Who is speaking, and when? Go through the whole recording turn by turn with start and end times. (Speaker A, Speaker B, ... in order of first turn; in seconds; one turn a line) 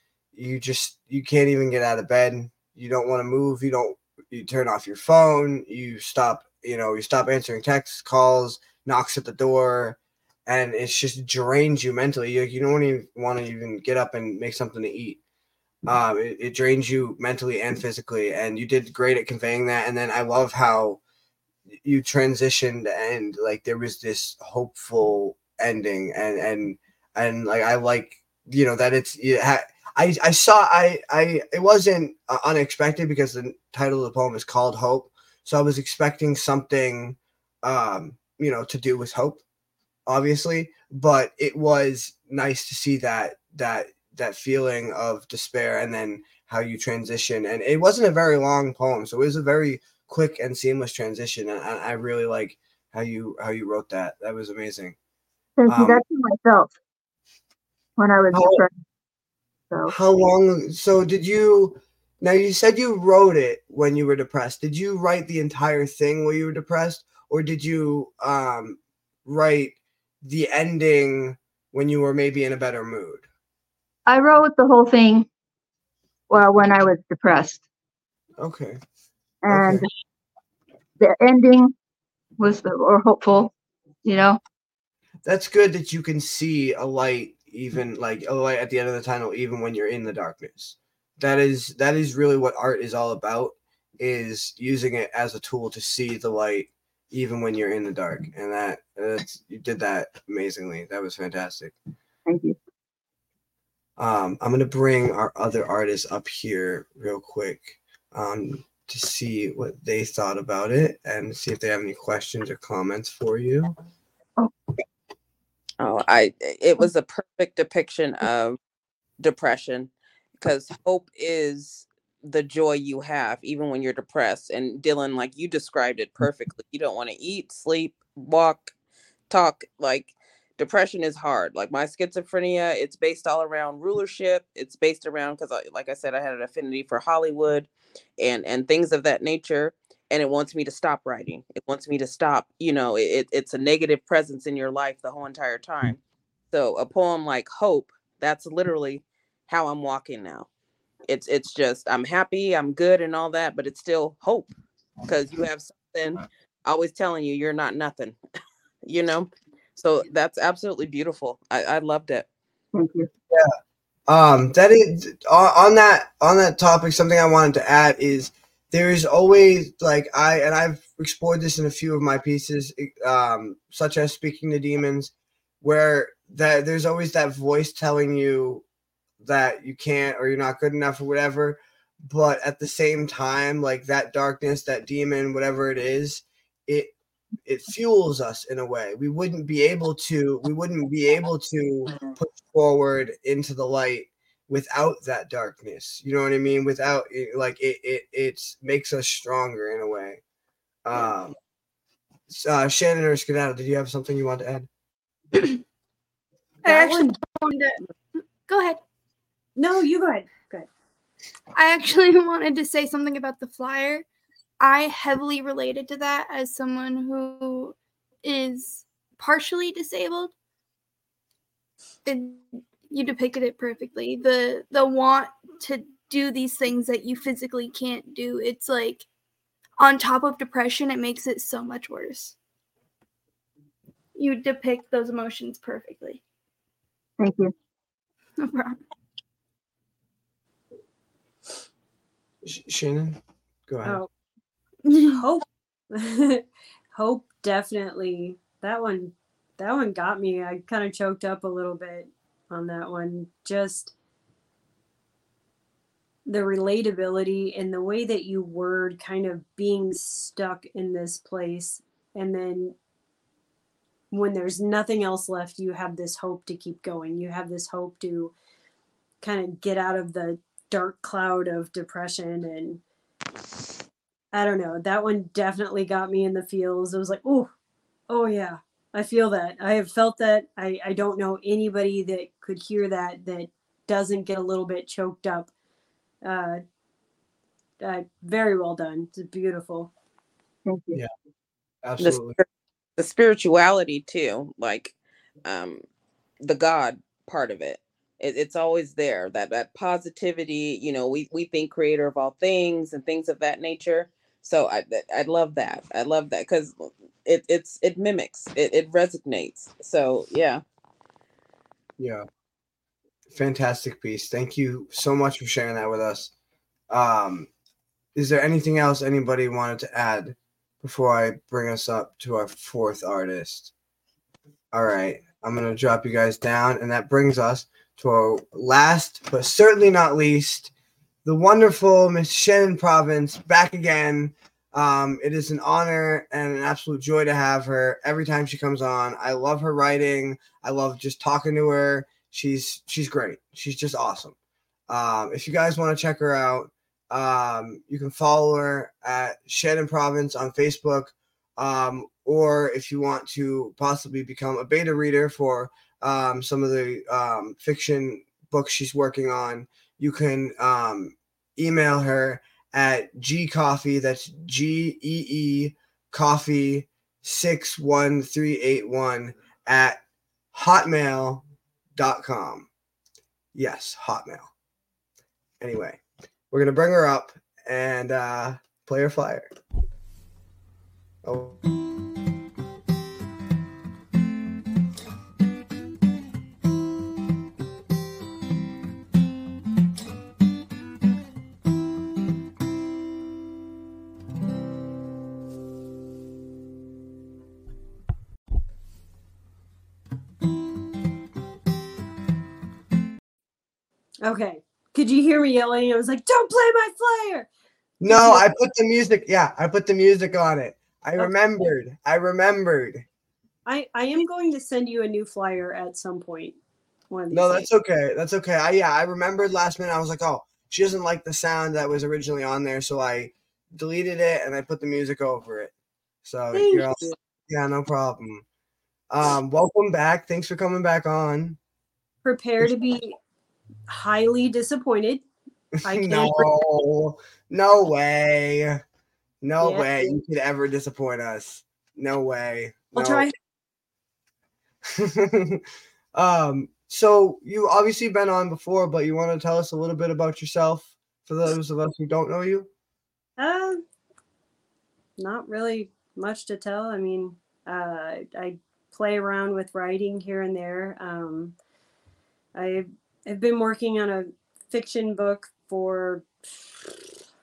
Speaker A: 0.3-15.2
Speaker A: 15.9-21.0
Speaker A: 21.7-39.4
Speaker A: 40.1-55.0
Speaker B: 55.6-56.7
Speaker A: 55.7-56.0
Speaker B: 58.0-58.7
Speaker A: 58.3-58.6
Speaker A: 59.9-73.3
Speaker B: 74.1-75.3
Speaker B: 76.3-77.6
Speaker A: 78.4-78.8
Speaker B: 79.4-79.9
Speaker A: 79.5-79.8
Speaker B: 81.0-81.7
Speaker B: 82.4-83.5
Speaker B: 84.0-84.4
Speaker A: 85.2-101.8
Speaker B: 102.3-102.6
Speaker A: 104.0-113.8
Speaker C: 115.8-118.6
Speaker C: 119.2-128.7
Speaker C: 129.3-146.0
Speaker C: 146.5-150.5
Speaker C: 151.1-154.5
Speaker C: 155.1-158.2
Speaker C: 158.8-162.3
Speaker B: 162.7-163.1
Speaker A: 164.1-178.7
Speaker A: 179.2-200.2
Speaker A: 200.8-201.4
Speaker A: 202.3-204.7
Speaker D: 206.6-207.8
Speaker E: 206.7-207.2
Speaker D: 208.5-208.8
Speaker E: 209.6-210.7
Speaker D: 211.6-214.1
Speaker D: 214.6-220.3
Speaker D: 222.1-229.1
Speaker D: 229.8-232.4
Speaker D: 234.2-236.2
Speaker B: 237.2-237.5
Speaker D: 238.4-238.8
Speaker A: 242.4-244.0
Speaker D: 244.9-245.2
Speaker E: 245.0-253.9
Speaker E: 256.3-262.8
Speaker E: 264.1-268.3
Speaker E: 269.2-272.8
Speaker E: 274.3-277.5
Speaker E: 278.1-285.5
Speaker E: 286.2-286.6
Speaker E: 287.8-289.9
Speaker B: 290.7-291.0
Speaker A: 291.8-292.4
Speaker C: 292.0-292.4
Speaker C: 293.0-295.8
Speaker C: 296.4-310.6
Speaker A: 312.0-312.2
Speaker A: 313.3-316.3
Speaker A: 316.9-317.5
Speaker A: 318.1-323.7
Speaker A: 324.7-330.7
Speaker A: 331.2-344.4
Speaker A: 344.9-370.0
Speaker A: 370.5-371.4
Speaker A: 372.0-372.7
Speaker A: 373.5-374.5
Speaker A: 375.6-376.0
Speaker A: 376.5-379.5
Speaker A: 381.2-381.6
Speaker E: 404.2-407.5
Speaker A: 408.0-413.1
Speaker E: 408.1-408.5
Speaker E: 413.7-416.6
Speaker E: 417.1-417.7
Speaker A: 417.3-425.7
Speaker A: 426.2-428.4
Speaker E: 426.5-427.1
Speaker A: 429.1-431.6
Speaker E: 432.2-433.2
Speaker E: 433.9-435.2
Speaker E: 435.8-436.5
Speaker A: 435.9-438.8
Speaker A: 439.4-443.3
Speaker E: 439.6-440.0
Speaker E: 442.9-443.3
Speaker A: 444.9-445.6
Speaker A: 446.1-452.7
Speaker E: 453.4-453.8
Speaker E: 455.2-461.6
Speaker E: 462.6-466.3